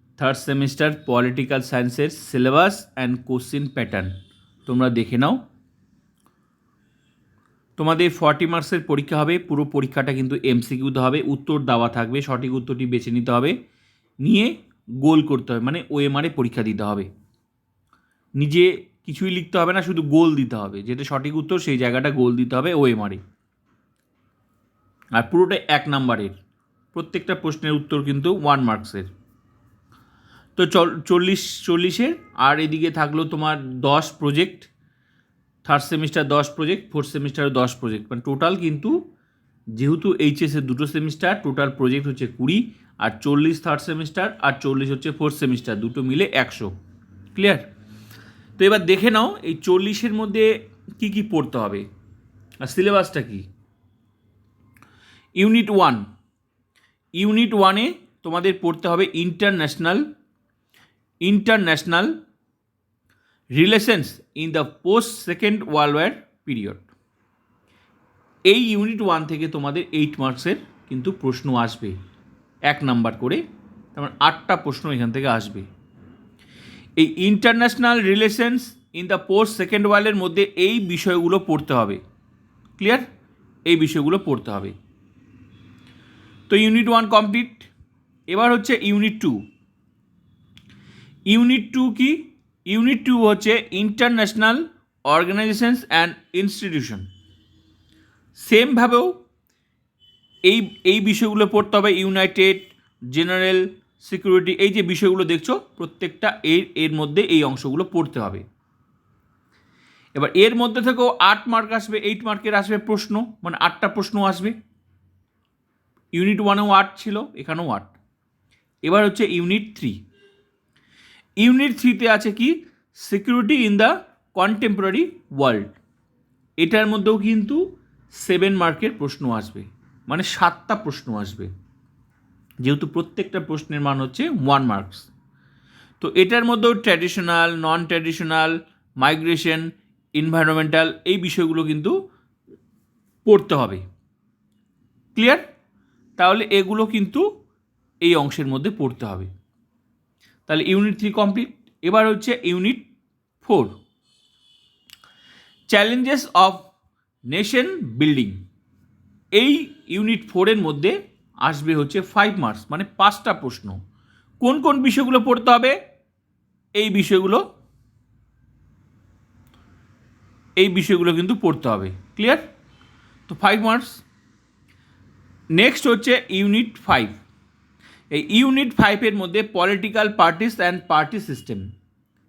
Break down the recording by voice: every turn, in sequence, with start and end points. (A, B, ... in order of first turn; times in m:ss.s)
0:00.2-0:04.1 A
0:04.6-0:05.4 A
0:07.8-0:13.5 A
0:14.2-0:17.1 A
0:18.4-0:23.2 A
0:25.1-0:26.3 A
0:26.9-0:29.1 A
0:30.6-0:34.7 A
0:35.6-0:39.0 A
0:39.7-0:46.7 A
0:47.3-0:47.6 A
0:48.6-0:51.8 A
0:52.6-0:53.4 A
0:55.4-0:56.0 A
0:57.2-1:00.0 A
1:01.2-1:02.1 A
1:03.5-1:06.8 A
1:08.5-1:12.0 A
1:12.7-1:13.4 A
1:13.9-1:15.7 A
1:17.0-1:22.0 A
1:22.8-1:23.0 A
1:23.7-1:24.7 A
1:26.5-1:27.7 A
1:28.3-1:29.4 A
1:31.3-1:37.0 A
1:38.4-1:39.1 A
1:40.4-1:48.4 A
1:50.1-1:54.6 A
1:56.1-1:57.9 A
1:58.8-2:00.0 A
2:01.4-2:05.8 A
2:06.6-2:07.6 A
2:08.1-2:11.5 A
2:12.6-2:15.1 A
2:16.0-2:21.9 A
2:23.2-2:23.8 A
2:25.1-2:25.4 A
2:26.2-2:27.2 A
2:28.0-2:29.3 A
2:30.5-2:32.8 A
2:33.4-2:33.7 A
2:35.7-2:36.6 A
2:37.3-2:38.4 A
2:39.3-2:43.8 A
2:44.4-2:45.8 A
2:46.8-2:47.4 A
2:50.6-2:52.4 A
2:53.3-2:54.0 A
2:55.5-2:57.2 A
2:58.1-3:01.6 A